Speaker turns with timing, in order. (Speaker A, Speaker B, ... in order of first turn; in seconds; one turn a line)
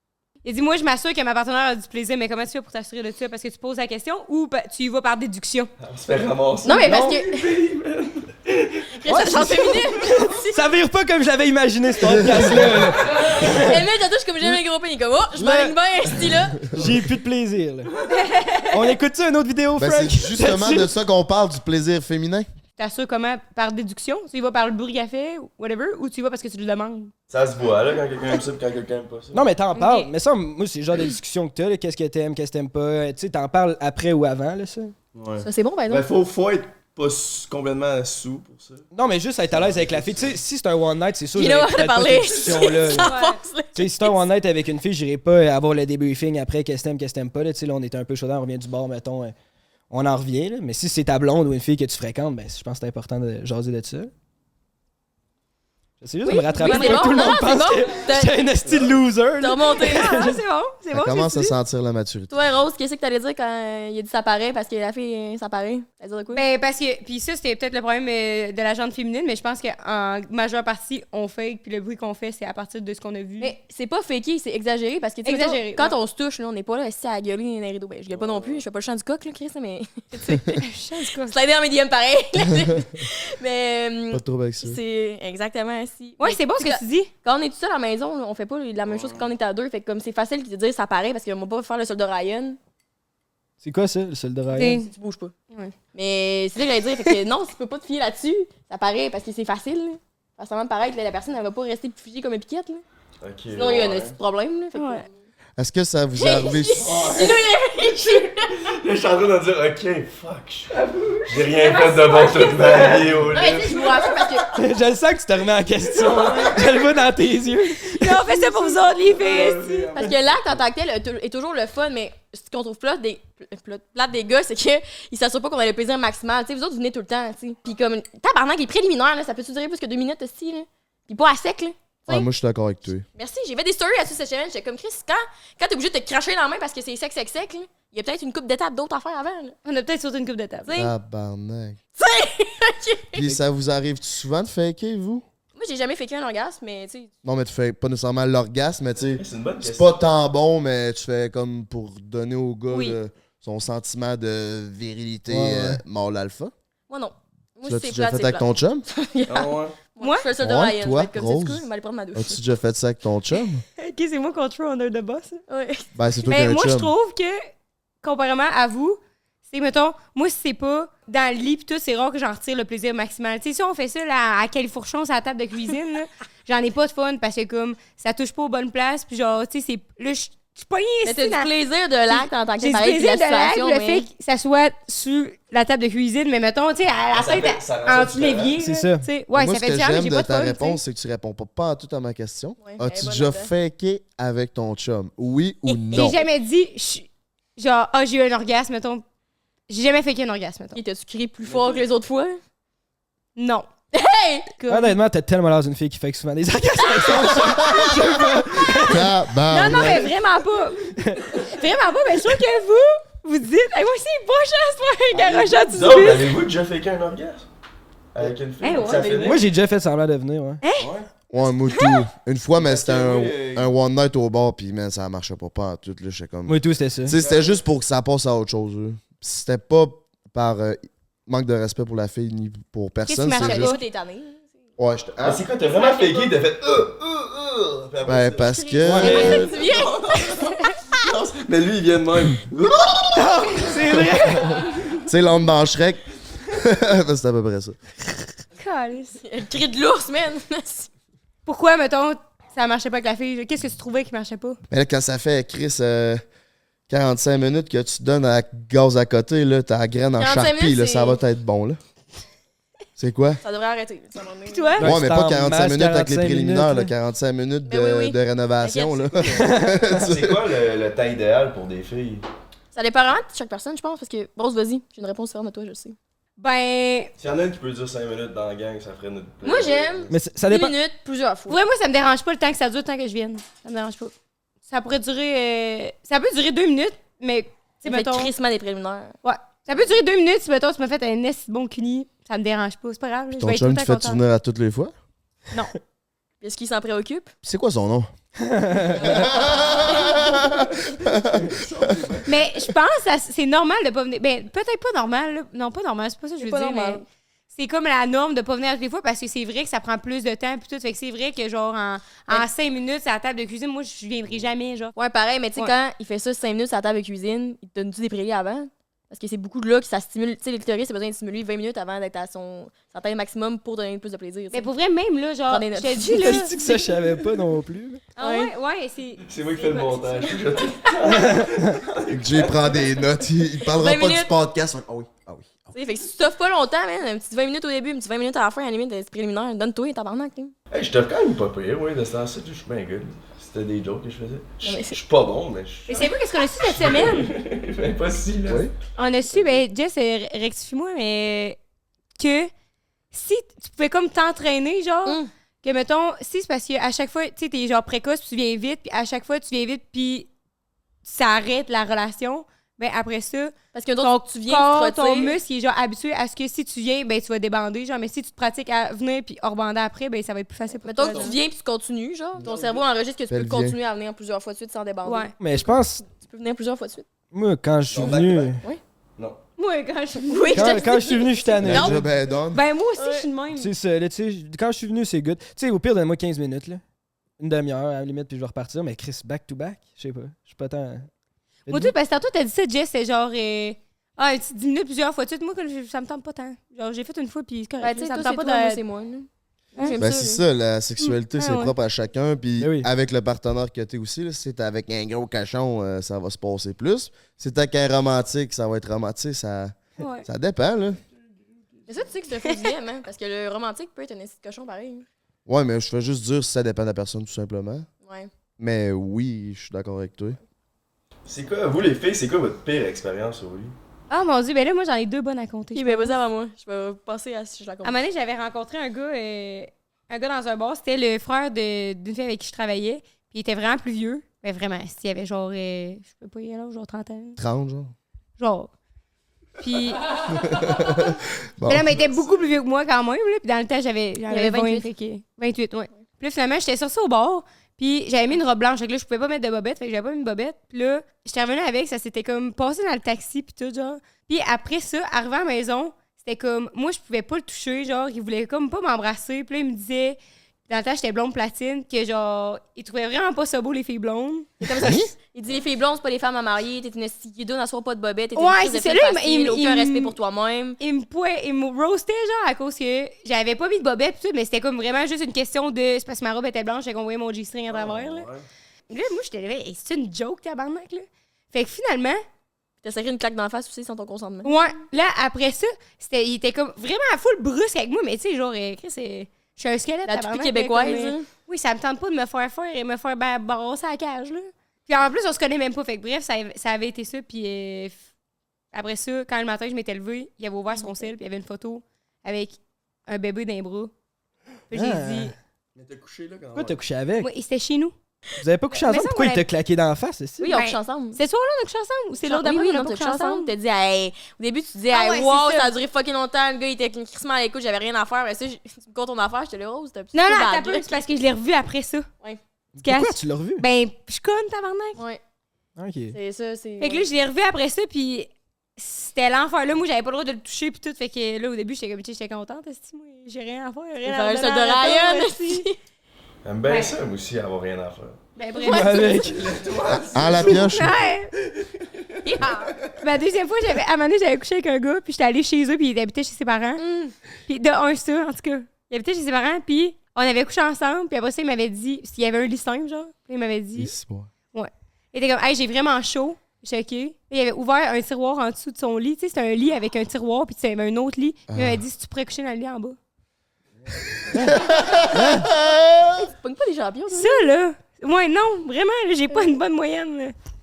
Speaker A: 0.4-5.7
Speaker B: 5.8-8.9
Speaker C: 6.6-7.5
Speaker D: 6.8-7.1
Speaker C: 9.0-10.6
Speaker D: 9.1-13.8
Speaker C: 13.1-16.7
Speaker D: 15.3-15.7
Speaker D: 16.7-17.9
Speaker A: 18.1-18.9
Speaker D: 18.7-20.9
Speaker E: 19.8-22.5
Speaker A: 22.8-27.1
Speaker B: 27.3-29.5
Speaker D: 29.3-34.9
Speaker A: 29.7-30.1
Speaker B: 35.1-38.9
Speaker C: 35.4-36.1
Speaker D: 38.9-43.1
Speaker B: 39.5-40.4
Speaker C: 41.4-44.2
Speaker A: 42.9-43.4
Speaker D: 43.7-49.3
Speaker D: 49.9-54.1
Speaker D: 56.0-60.4
Speaker C: 56.2-58.4
Speaker A: 56.3-57.4
Speaker B: 58.6-58.9
Speaker C: 59.4-60.3
Speaker A: 59.8-61.5
Speaker E: 60.9-62.4
Speaker C: 62.3-66.4
Speaker A: 66.3-73.5
Speaker C: 73.4-80.7
Speaker A: 75.2-76.0
Speaker B: 78.1-78.6
Speaker A: 80.5-81.3
Speaker C: 81.2-92.6
Speaker E: 84.1-84.8
Speaker A: 86.2-87.1
Speaker B: 88.8-89.3
Speaker D: 93.6-94.7
Speaker A: 94.5-94.9
Speaker C: 94.6-95.3
Speaker C: 95.9-102.8
Speaker B: 103.2-104.1
Speaker C: 103.5-105.1
Speaker A: 104.7-105.0
Speaker E: 105.6-107.0
Speaker C: 106.2-108.5
Speaker B: 106.8-114.2
Speaker A: 111.4-112.7
Speaker C: 113.3-114.5
Speaker D: 114.5-118.3
Speaker A: 118.0-119.9
Speaker B: 119.0-120.5
Speaker C: 119.9-132.3
Speaker E: 132.1-133.0
Speaker C: 133.1-139.6
Speaker A: 139.6-140.7
Speaker C: 140.6-140.9
Speaker E: 140.8-141.8
Speaker C: 142.0-143.2
Speaker E: 143.1-145.2
Speaker C: 145.5-147.1
Speaker E: 147.2-156.5
Speaker B: 149.2-150.0
Speaker A: 152.7-153.0
Speaker D: 155.3-155.8
Speaker C: 156.9-162.4
Speaker E: 157.7-158.8
Speaker B: 159.3-159.8
Speaker A: 160.0-160.3
Speaker E: 160.4-163.6
Speaker A: 163.8-165.4
Speaker C: 165.5-165.9
Speaker E: 165.9-166.9
Speaker A: 166.3-167.4
Speaker A: 168.0-181.5
Speaker C: 181.0-184.0
Speaker A: 182.1-190.8
Speaker B: 187.1-188.6
Speaker D: 188.6-189.1
Speaker E: 189.3-196.2
Speaker C: 192.6-193.5
Speaker C: 195.9-196.2
Speaker A: 195.9-199.0
Speaker A: 199.7-200.8
Speaker C: 200.7-202.4
Speaker B: 201.4-201.8
Speaker A: 203.3-203.7
Speaker C: 203.9-204.6
Speaker A: 204.6-204.9
Speaker D: 204.7-209.1
Speaker C: 206.9-207.6
Speaker A: 207.2-207.7
Speaker E: 207.6-208.1
Speaker E: 208.8-210.1
Speaker A: 209.5-216.3
Speaker D: 211.0-211.4
Speaker B: 215.1-217.5
Speaker B: 218.1-219.4
Speaker A: 218.6-219.3
Speaker C: 218.9-219.3
Speaker D: 219.2-220.6
Speaker A: 220.6-220.9
Speaker B: 220.8-221.1
Speaker E: 221.3-233.7
Speaker B: 222.6-223.7
Speaker D: 226.5-227.2
Speaker B: 227.1-227.6
Speaker A: 233.0-233.8
Speaker C: 233.4-234.4
Speaker E: 234.8-235.4
Speaker B: 235.2-244.1
Speaker C: 235.6-236.3
Speaker E: 238.0-239.5
Speaker C: 238.7-240.6
Speaker D: 238.8-239.5
Speaker A: 239.1-239.5
Speaker A: 240.4-240.7
Speaker D: 243.1-244.7
Speaker A: 243.9-244.5
Speaker E: 245.1-247.8
Speaker A: 248.6-249.2
Speaker C: 249.2-250.9
Speaker A: 251.4-254.6
Speaker E: 254.7-256.2
Speaker E: 256.9-261.8
Speaker C: 260.2-261.2
Speaker E: 263.0-263.4
Speaker C: 263.4-264.8
Speaker A: 264.4-264.9
Speaker D: 264.8-266.9
Speaker E: 264.8-270.3
Speaker C: 267.6-269.4
Speaker D: 269.2-270.0
Speaker B: 269.9-272.2
Speaker C: 272.7-275.9
Speaker A: 276.4-277.1
Speaker B: 277.2-280.1
Speaker C: 279.4-281.6
Speaker D: 280.1-280.7
Speaker A: 281.5-284.1
Speaker A: 284.7-288.3
Speaker C: 287.9-289.1
Speaker A: 289.2-294.2
Speaker E: 293.3-294.9
Speaker C: 296.4-297.3
Speaker E: 297.4-298.1
Speaker D: 298.5-299.1
Speaker E: 299.0-301.5
Speaker B: 299.0-302.4
Speaker A: 302.2-314.9
Speaker C: 306.4-307.0
Speaker C: 314.9-324.7
Speaker A: 324.5-326.9
Speaker C: 325.5-326.5
Speaker D: 326.1-328.0
Speaker A: 328.1-330.3
Speaker C: 328.2-328.5
Speaker B: 329.2-333.1
Speaker D: 331.1-331.6
Speaker E: 332.1-335.6
Speaker C: 333.7-334.3
Speaker C: 335.7-340.5
Speaker B: 340.7-346.1
Speaker C: 344.6-345.0
Speaker A: 345.9-347.3
Speaker B: 346.6-348.7
Speaker A: 348.9-351.6
Speaker B: 349.3-349.6
Speaker A: 352.2-352.5
Speaker A: 353.1-360.3
Speaker A: 361.0-371.4
Speaker C: 363.7-365.4
Speaker C: 370.8-375.3
Speaker B: 371.0-371.3
Speaker B: 372.4-372.8
Speaker E: 373.3-373.8
Speaker A: 375.0-375.3
Speaker D: 375.4-376.0
Speaker C: 376.0-377.1
Speaker D: 377.3-378.6
Speaker B: 377.9-378.5
Speaker A: 379.6-381.3
Speaker C: 380.3-382.0
Speaker D: 380.5-382.1
Speaker E: 381.6-382.6
Speaker A: 382.5-383.7
Speaker C: 383.0-383.3
Speaker D: 383.5-386.8
Speaker D: 387.4-391.1
Speaker D: 391.7-391.9
Speaker A: 391.7-398.8
Speaker C: 397.8-400.4
Speaker E: 400.0-411.0
Speaker A: 401.0-401.7
Speaker D: 402.6-402.9
Speaker A: 410.0-410.3
Speaker C: 411.9-415.0
Speaker A: 412.4-412.7
Speaker E: 415.5-417.9
Speaker C: 418.0-418.3
Speaker E: 418.6-420.4
Speaker B: 421.2-423.7
Speaker A: 424.1-426.1
Speaker C: 425.7-428.0
Speaker A: 427.8-437.4
Speaker E: 437.4-437.9
Speaker A: 438.4-438.7
Speaker A: 439.6-440.9
Speaker E: 440.5-441.9
Speaker A: 441.6-464.5
Speaker C: 444.3-444.9
Speaker C: 464.6-470.8
Speaker A: 468.4-470.1
Speaker A: 470.8-478.3
Speaker B: 477.7-478.4
Speaker A: 478.9-482.2
Speaker C: 482.8-484.5
Speaker A: 484.4-498.0
Speaker C: 490.1-491.3
Speaker A: 498.7-503.9
Speaker C: 500.7-501.1
Speaker A: 504.7-505.3
Speaker D: 504.7-505.3
Speaker B: 505.8-506.8
Speaker D: 506.5-507.3
Speaker A: 507.2-507.9
Speaker D: 508.4-510.5
Speaker A: 508.7-509.4
Speaker C: 510.4-511.2
Speaker A: 510.5-513.5
Speaker C: 512.2-521.0
Speaker A: 514.9-515.7
Speaker A: 520.1-522.1
Speaker D: 522.8-523.6
Speaker A: 522.8-525.0
Speaker D: 525.8-526.2
Speaker C: 526.1-527.1
Speaker A: 526.8-535.6
Speaker C: 534.0-535.8
Speaker B: 536.4-538.2
Speaker A: 536.6-536.9
Speaker A: 538.4-539.3
Speaker C: 538.6-539.4
Speaker D: 538.6-539.4
Speaker B: 539.2-541.0
Speaker E: 540.1-540.9
Speaker A: 540.4-541.3
Speaker B: 542.1-542.9
Speaker C: 542.2-542.7
Speaker A: 543.0-546.8
Speaker C: 546.8-547.1
Speaker A: 547.5-553.9
Speaker E: 553.8-554.3
Speaker A: 554.5-563.0
Speaker E: 561.5-561.8
Speaker D: 564.3-565.5
Speaker E: 564.3-566.2
Speaker C: 566.1-567.5
Speaker A: 567.1-570.3